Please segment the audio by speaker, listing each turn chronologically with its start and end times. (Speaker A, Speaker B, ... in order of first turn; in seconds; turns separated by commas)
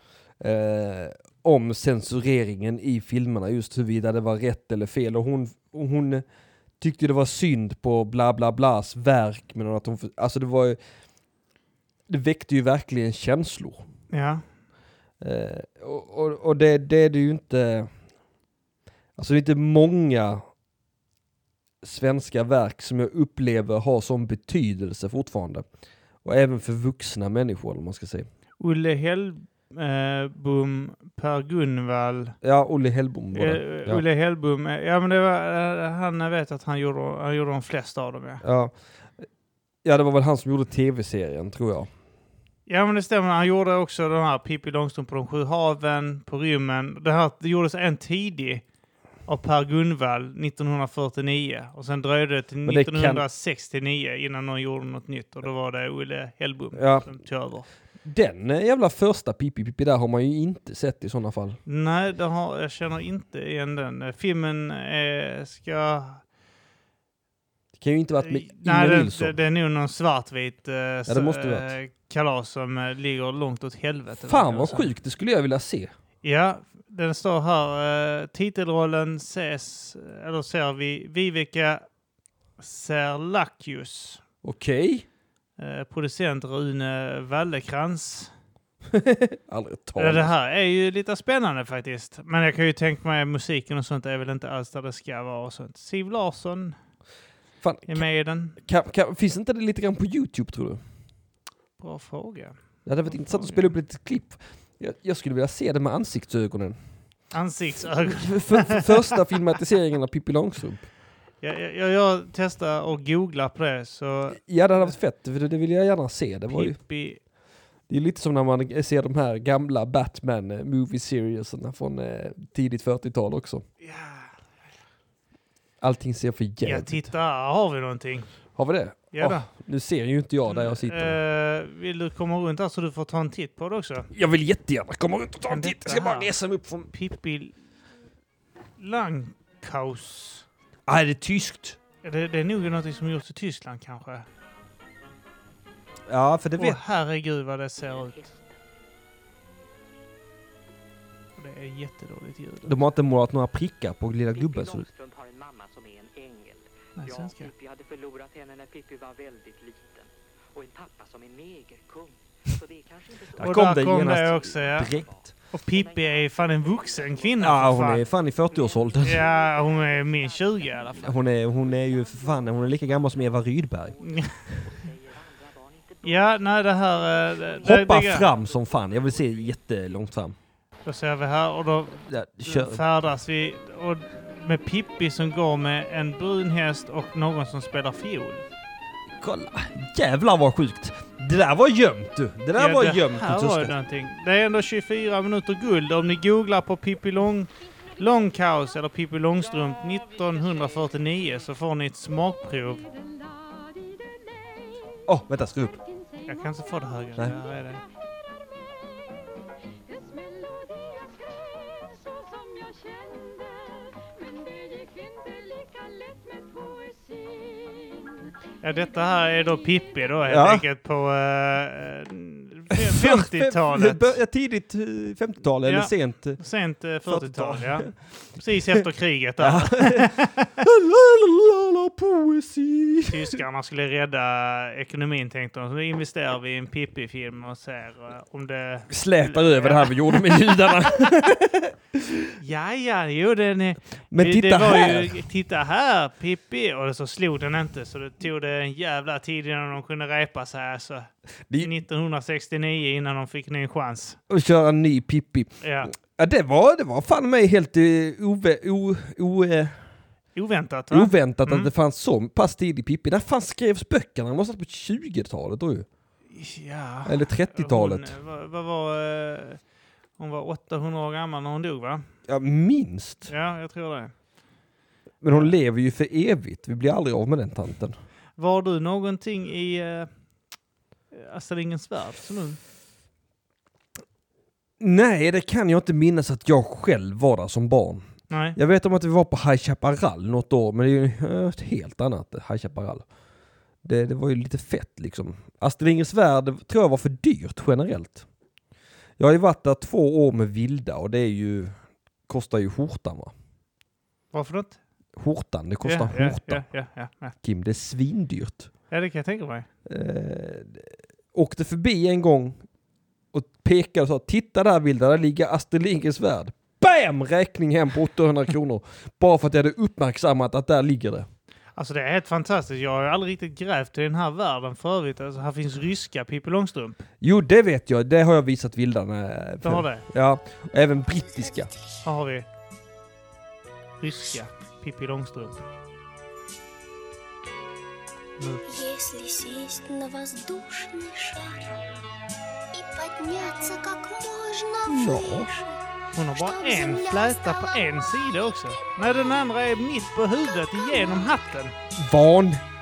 Speaker A: 0.4-6.2, Speaker A: 6.8-10.8, Speaker A: 12.1-13.8, Speaker B: 14.1-14.4, Speaker A: 15.2-17.9, Speaker A: 19.2-20.4, Speaker A: 21.8-25.7, Speaker A: 26.2-28.3, Speaker B: 28.6-32.4, Speaker A: 32.4-34.0, Speaker B: 33.3-38.4, Speaker A: 38.4-38.7, Speaker A: 39.8-41.9, Speaker B: 42.7-48.6, Speaker B: 49.3-57.7, Speaker A: 52.7-53.2, Speaker A: 56.8-57.1, Speaker A: 58.0-61.6, Speaker B: 61.7-66.2, Speaker A: 67.8-69.4, Speaker B: 68.2-74.9, Speaker A: 71.1-71.7, Speaker A: 74.2-75.9, Speaker B: 76.2-81.8, Speaker B: 82.6-84.2, Speaker A: 84.4-85.0, Speaker B: 85.6-88.3, Speaker A: 88.9-90.3, Speaker B: 90.0-96.8, Speaker A: 97.6-98.0, Speaker B: 97.9-98.6, Speaker A: 98.6-100.8, Speaker B: 101.8-103.7, Speaker A: 102.9-106.8, Speaker B: 107.3-109.2, Speaker A: 108.1-110.9, Speaker B: 111.4-115.0, Speaker A: 114.3-116.8, Speaker B: 116.5-117.2, Speaker A: 117.9-123.6, Speaker B: 123.8-124.4, Speaker A: 125.8-127.0, Speaker B: 126.6-128.3, Speaker A: 128.6-131.2, Speaker B: 129.1-129.5, Speaker B: 130.5-134.1, Speaker A: 134.1-136.9, Speaker B: 135.5-136.3, Speaker B: 136.9-137.6, Speaker B: 138.8-140.5, Speaker A: 140.9-141.8, Speaker B: 142.0-144.3, Speaker A: 146.1-146.8, Speaker B: 146.6-148.2, Speaker C: 147.8-148.6, Speaker B: 151.4-152.8, Speaker A: 152.7-154.9, Speaker C: 154.3-179.6, Speaker B: 157.0-157.5, Speaker A: 163.4-165.3, Speaker B: 163.4-164.9, Speaker B: 165.5-168.0, Speaker A: 167.4-169.2, Speaker B: 169.0-171.2, Speaker A: 170.9-174.0, Speaker B: 174.0-174.3, Speaker B: 176.0-178.3, Speaker A: 177.6-180.3, Speaker B: 180.8-188.4, Speaker A: 182.1-182.8, Speaker A: 189.2-193.8, Speaker B: 192.5-202.9, Speaker A: 205.1-205.8, Speaker B: 206.2-207.8, Speaker B: 218.6-224.2, Speaker A: 220.3-220.7, Speaker A: 222.7-226.4, Speaker B: 225.6-230.5, Speaker A: 227.1-228.1, Speaker A: 229.4-233.4, Speaker B: 233.1-240.5, Speaker A: 238.9-242.3, Speaker B: 242.4-254.2, Speaker A: 244.1-245.2, Speaker A: 254.3-259.8, Speaker B: 255.6-255.9, Speaker B: 260.4-261.7, Speaker A: 260.9-265.9, Speaker B: 266.3-269.6, Speaker A: 267.1-268.1, Speaker B: 270.2-272.1, Speaker A: 272.3-273.3, Speaker B: 273.3-274.1, Speaker A: 275.2-278.0, Speaker B: 275.3-275.6, Speaker B: 278.4-280.1, Speaker B: 281.1-282.6, Speaker A: 284.8-293.0, Speaker B: 288.3-288.6, Speaker A: 293.8-298.2, Speaker A: 299.2-301.8, Speaker A: 302.3-303.3, Speaker B: 304.3-304.8, Speaker A: 305.2-306.7, Speaker B: 305.8-307.4, Speaker A: 307.4-308.7, Speaker B: 308.9-309.7, Speaker A: 309.9-312.6, Speaker A: 313.3-321.3, Speaker B: 321.8-327.0, Speaker A: 327.2-331.7, Speaker B: 329.6-330.1, Speaker D: 331.2-331.8, Speaker B: 332.0-332.5, Speaker B: 334.0-335.6, Speaker B: 338.4-338.7, Speaker D: 338.7-341.8, Speaker D: 342.7-345.8, Speaker A: 344.9-345.5, Speaker B: 346.1-351.8, Speaker D: 346.3-348.9, Speaker D: 350.6-351.5, Speaker A: 352.0-352.6